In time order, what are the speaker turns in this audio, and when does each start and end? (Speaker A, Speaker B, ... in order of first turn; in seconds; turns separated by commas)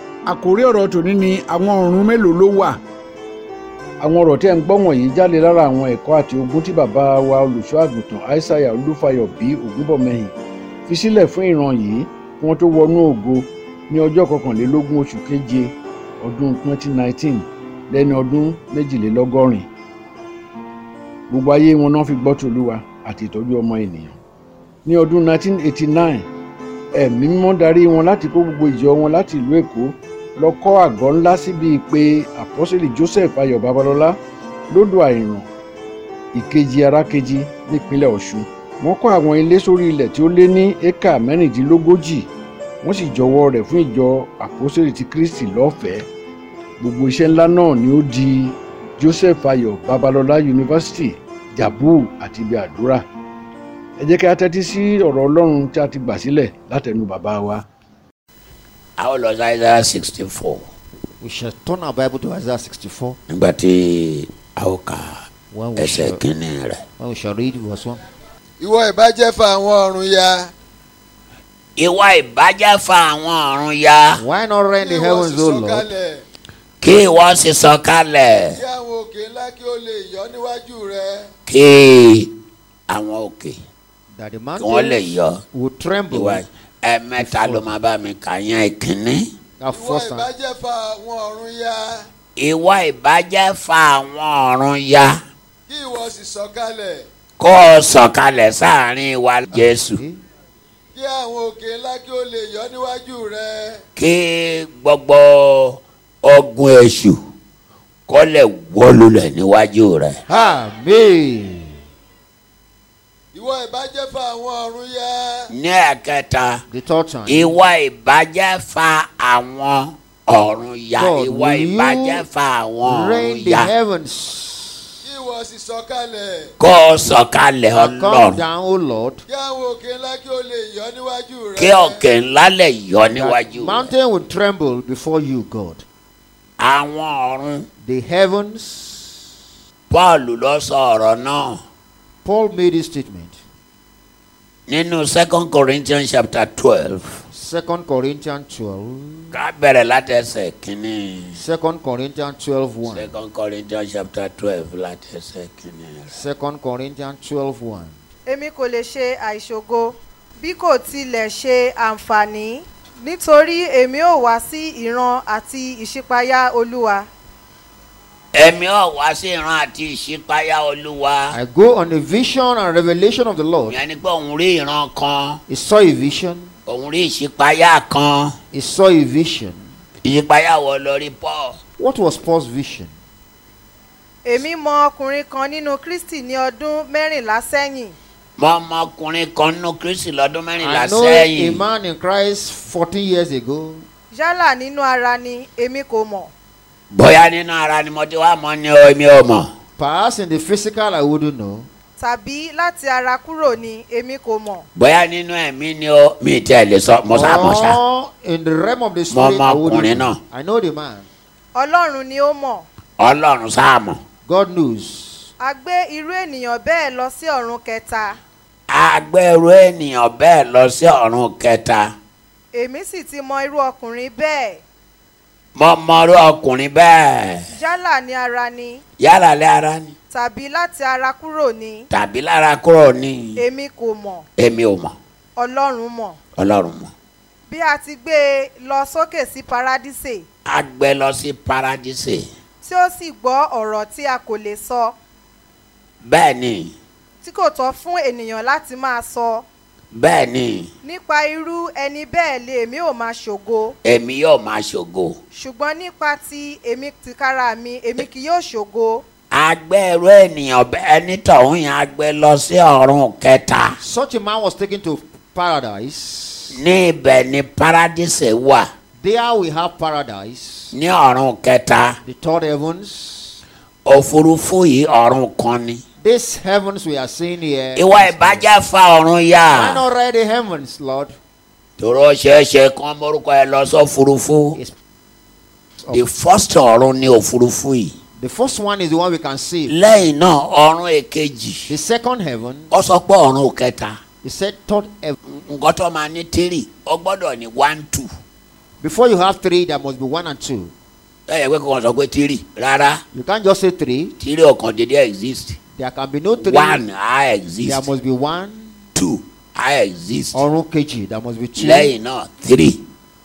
Speaker A: 0.3-2.8, Speaker A: 4.0-10.3, Speaker A: 10.9-19.7, Speaker A: 21.3-24.2, Speaker A: 24.9-26.3, Speaker A: 26.9-34.2, Speaker A: 34.7-35.5, Speaker A: 36.3-42.3, Speaker A: 42.8-46.1, Speaker A: 46.8-53.0, Speaker A: 54.0-57.6, Speaker B: 59.0-60.7, Speaker C: 61.2-63.2, Speaker B: 63.3-65.2, Speaker C: 65.5-66.2, Speaker B: 65.8-66.8, Speaker C: 67.0-68.0, Speaker D: 68.6-70.5, Speaker B: 71.8-74.2, Speaker C: 74.2-75.9, Speaker D: 74.8-76.2, Speaker B: 76.8-78.6, Speaker D: 78.5-81.3, Speaker B: 81.5-82.3, Speaker B: 82.9-83.6, Speaker C: 84.1-86.4, Speaker B: 84.6-85.4, Speaker B: 86.1-89.3, Speaker C: 87.2-87.7, Speaker C: 89.6-90.3, Speaker D: 89.7-92.1, Speaker B: 92.4-95.2, Speaker D: 95.7-97.1, Speaker B: 97.4-100.0, Speaker C: 99.5-100.2, Speaker D: 101.0-103.8, Speaker B: 104.0-107.2, Speaker B: 108.1-110.2, Speaker C: 110.3-111.8, Speaker D: 113.3-115.5, Speaker B: 115.5-116.6, Speaker C: 116.7-117.6, Speaker B: 117.3-123.7, Speaker C: 121.0-122.3, Speaker C: 122.8-125.0, Speaker D: 125.0-126.5, Speaker B: 126.6-128.4, Speaker C: 127.7-129.2, Speaker D: 129.3-132.0, Speaker B: 131.6-133.9, Speaker C: 133.1-135.8, Speaker B: 136.6-137.7, Speaker C: 137.8-139.2, Speaker B: 139.9-141.6, Speaker C: 142.2-143.4, Speaker B: 144.7-147.2, Speaker C: 147.3-149.4, Speaker B: 149.3-151.4, Speaker C: 151.3-153.2, Speaker B: 152.9-156.2, Speaker C: 156.1-157.9, Speaker E: 158.3-167.1, Speaker B: 168.3-171.3, Speaker C: 171.3-173.8, Speaker B: 173.7-175.4, Speaker C: 175.5-176.5, Speaker B: 176.7-178.4, Speaker C: 178.5-179.7, Speaker B: 180.0-181.6, Speaker C: 181.8-182.9, Speaker E: 184.3-187.9, Speaker B: 188.4-191.6, Speaker C: 190.6-193.9, Speaker E: 194.1-196.3, Speaker B: 196.9-199.5, Speaker C: 199.8-201.7, Speaker E: 202.0-204.7, Speaker B: 204.8-207.8, Speaker C: 207.1-211.1, Speaker B: 209.1-210.2, Speaker E: 211.6-212.6, Speaker B: 213.0-214.0, Speaker C: 214.3-215.3, Speaker E: 215.4-218.2, Speaker B: 218.7-221.9, Speaker E: 222.5-224.6, Speaker B: 225.6-227.5, Speaker E: 227.5-228.8, Speaker B: 229.0-229.9, Speaker E: 230.1-231.9, Speaker B: 231.9-233.4, Speaker E: 233.4-234.3, Speaker B: 234.4-235.0, Speaker E: 235.4-236.2, Speaker B: 236.4-236.9, Speaker E: 237.5-240.2, Speaker B: 240.5-242.2, Speaker E: 242.6-244.9, Speaker B: 246.0-246.8, Speaker E: 247.2-249.4, Speaker B: 249.9-250.7, Speaker E: 250.8-253.8, Speaker B: 253.8-255.2, Speaker E: 255.3-259.0, Speaker B: 259.3-263.8, Speaker C: 263.8-266.6, Speaker B: 266.5-268.7, Speaker C: 269.0-270.8, Speaker B: 270.7-272.0, Speaker C: 272.0-273.4, Speaker B: 273.9-275.8, Speaker C: 276.0-278.5, Speaker B: 277.8-279.8, Speaker C: 279.5-281.2, Speaker B: 281.8-284.6, Speaker C: 285.8-286.1, Speaker B: 285.9-287.9, Speaker C: 288.2-289.8, Speaker B: 289.7-291.7, Speaker C: 291.7-292.7, Speaker B: 292.7-294.0, Speaker C: 294.2-295.2, Speaker B: 295.3-298.1, Speaker C: 298.8-300.7, Speaker B: 301.3-303.0, Speaker C: 303.1-304.2, Speaker B: 304.2-305.6, Speaker C: 305.8-306.8, Speaker B: 306.4-307.9, Speaker C: 307.6-308.8, Speaker B: 308.9-310.4, Speaker C: 310.3-311.9, Speaker B: 311.6-312.8